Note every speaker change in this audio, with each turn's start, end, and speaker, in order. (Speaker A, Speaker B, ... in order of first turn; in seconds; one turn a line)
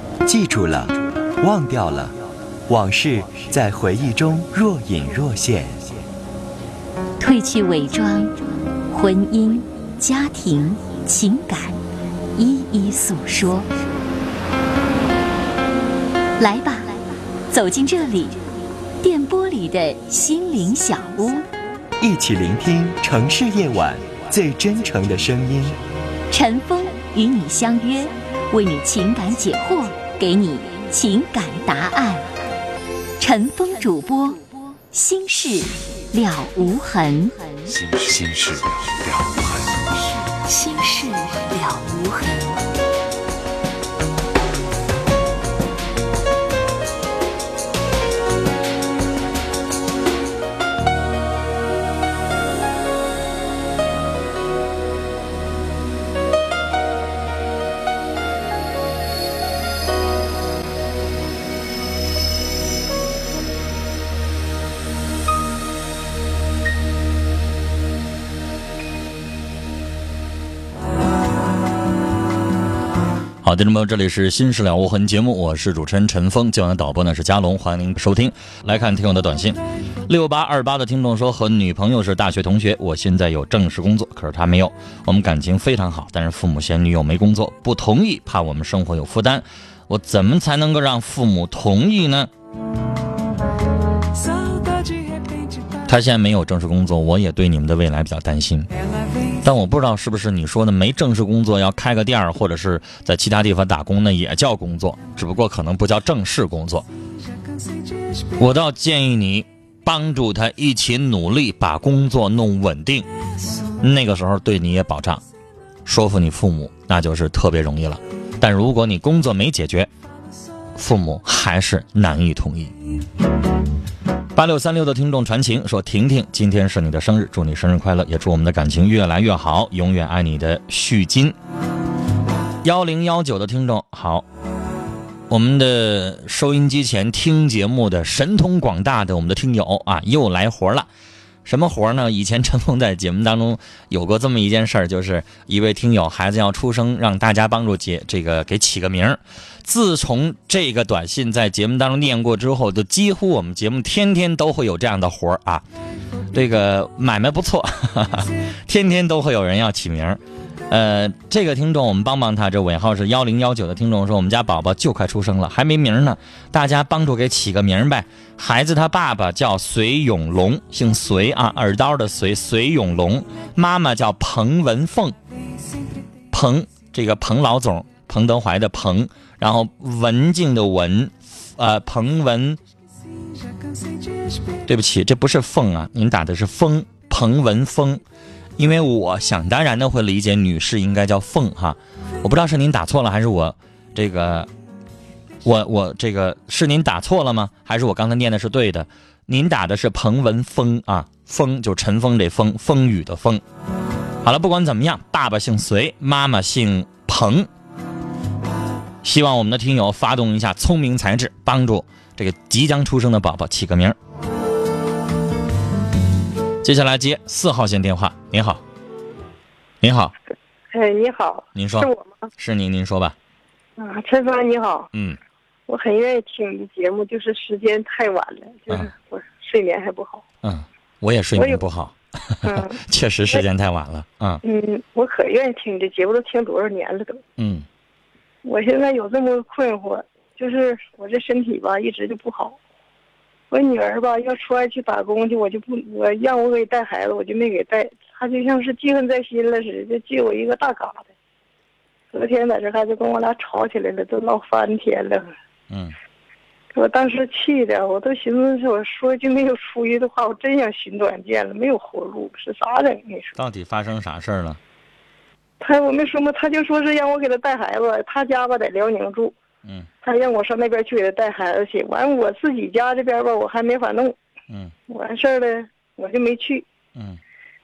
Speaker A: 0.2-6.0
Speaker B: 7.2-11.8
Speaker B: 12.3-13.7
Speaker B: 16.4-18.4
Speaker B: 19.0-21.4
Speaker A: 22.0-25.8
Speaker B: 26.3-32.4
Speaker B: 33.2-37.7
Speaker C: 37.7-40.2
Speaker B: 40.4-42.6
Speaker D: 73.4-92.3
Speaker D: 95.8-98.7
Speaker D: 99.4-106.8
Speaker D: 108.4-113.0
Speaker D: 113.8-115.2
Speaker D: 115.8-119.9
Speaker D: 120.8-122.7
Speaker D: 124.3-131.3
Speaker D: 132.6-134.2
Speaker D: 135.3-140.9
Speaker D: 141.4-155.6
Speaker D: 156.3-160.2
Speaker D: 160.7-175.2
Speaker D: 176.3-182.6
Speaker D: 184.7-188.0
Speaker D: 188.6-194.5
Speaker D: 195.4-203.4
Speaker D: 204.2-207.5
Speaker D: 209.0-213.9
Speaker D: 216.6-218.6
Speaker D: 219.8-220.1
Speaker E: 220.7-222.3
Speaker D: 221.5-223.1
Speaker E: 223.8-224.9
Speaker D: 224.9-225.2
Speaker E: 225.7-230.2
Speaker D: 230.4-234.4
Speaker E: 231.3-231.6
Speaker E: 232.4-232.8
Speaker E: 234.4-237.2
Speaker D: 237.4-237.7
Speaker E: 238.4-242.6
Speaker E: 243.5-251.1
Speaker E: 252.1-255.3
Speaker D: 255.7-255.9
Speaker E: 256.7-263.4
Speaker D: 263.4-264.6
Speaker E: 265.6-269.4
Speaker E: 270.0-274.1
Speaker E: 274.9-276.6